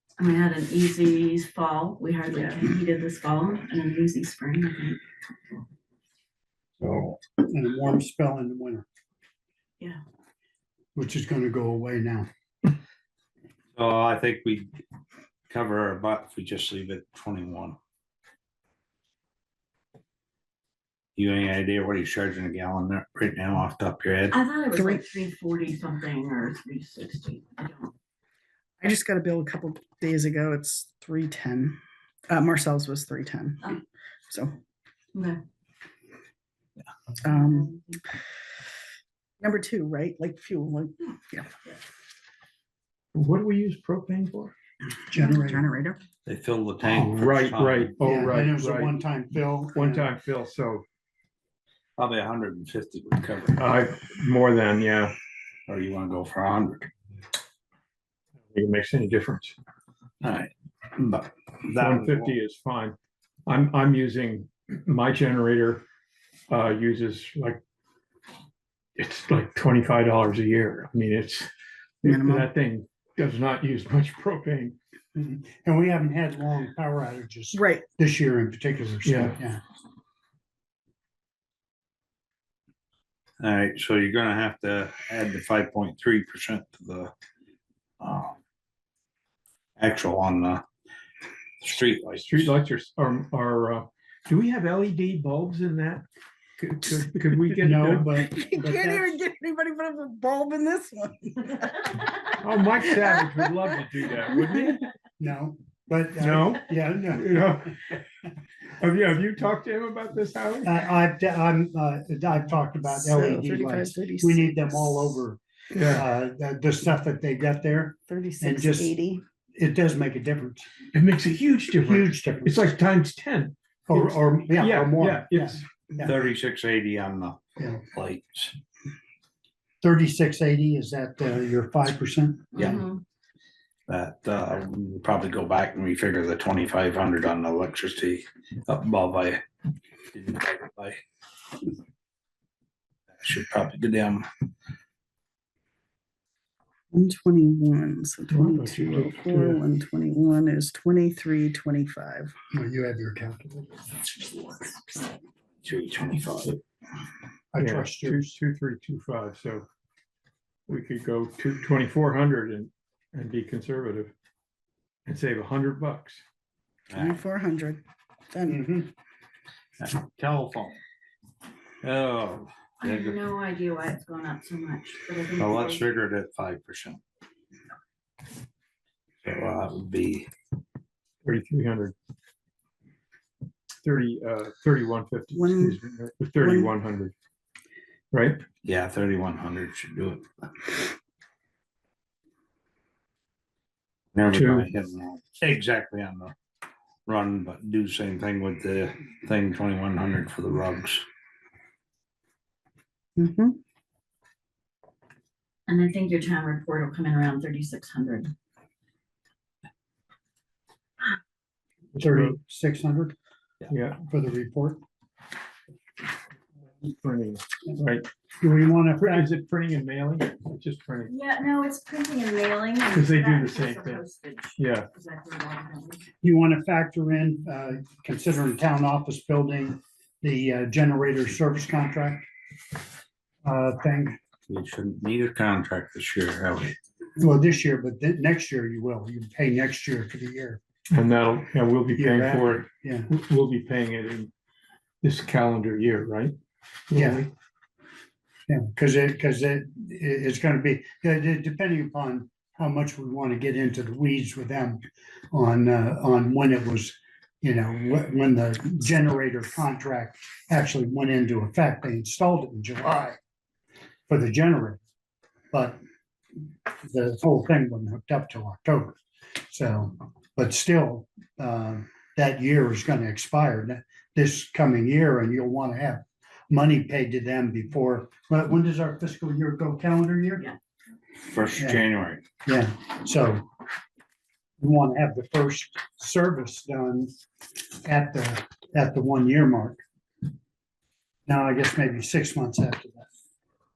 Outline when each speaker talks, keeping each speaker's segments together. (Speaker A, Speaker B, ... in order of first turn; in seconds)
Speaker A: 0.2-5.0, 24.3-27.9, 35.1-35.4, 37.2-38.0, 132.5-133.0, 172.8-175.9, 205.7-208.3, 221.1-226.1
Speaker B: 2.3-2.6, 24.7-25.1, 28.8-34.5, 37.2-37.7, 39.4-41.5, 45.3-46.0, 72.0-72.5, 77.5-77.8, 98.1-103.5, 104.4-104.8, 112.8-115.2, 118.1-119.2, 146.9-152.3, 166.9-168.6, 185.3-185.8, 186.4-186.7, 203.2-203.6
Speaker C: 6.8-8.8, 10.9-12.3, 45.1-45.6, 48.0-50.1, 75.1-79.6, 97.6-99.2, 105.2-107.5, 110.6-120.7, 121.8-122.7, 123.9-126.1, 127.6-127.8, 129.8-132.5, 152.5-153.8, 157.5-158.3, 168.4-168.9, 212.0-213.2, 214.0-214.8, 218.4-219.3, 226.2-232.3, 233.4-234.2, 237.2-240.6, 241.9-243.1, 246.9-247.2, 248.5-263.2, 264.1-264.8, 265.5-265.8, 266.7-280.5, 281.6-281.8, 282.4-283.5, 284.6-287.1, 287.8-289.8, 291.3-293.1
Speaker D: 13.8-14.7, 15.5-17.8, 21.2-24.4, 46.2-48.0, 52.0-53.6, 55.7-56.9, 60.2-62.3, 83.4-87.1, 88.0-88.4, 89.8-90.6, 91.6-92.5, 126.0-128.5, 132.6-132.8, 133.9-139.4, 140.1-141.0, 143.2-144.3, 155.6-156.6, 166.9-167.2, 169.8-170.8, 171.8-173.2, 175.4-177.0, 179.2-180.3, 188.6-190.2, 194.1-196.3, 197.1-201.0, 234.5-236.8, 281.2-282.2
Speaker E: 43.1-44.5, 47.0-48.9, 49.7-50.9, 53.6-55.1, 58.5-59.5, 61.8-65.8, 66.5-67.6, 69.0-71.5, 72.0-74.8, 79.0-79.4, 92.2-96.0, 96.6-98.1, 102.4-104.9, 106.2-108.0, 108.8-110.7, 115.7-116.0, 120.9-125.6, 148.3-149.6, 157.6-159.7, 160.7-164.1, 165.1-166.2, 181.2-181.9, 183.8-187.1, 188.1-188.4, 194.3-194.7, 212.0-212.3, 213.7-214.0, 216.8-218.1, 219.0-221.1, 222.9-224.0, 224.6-224.9, 240.9-244.3, 245.0-246.3, 246.9-247.3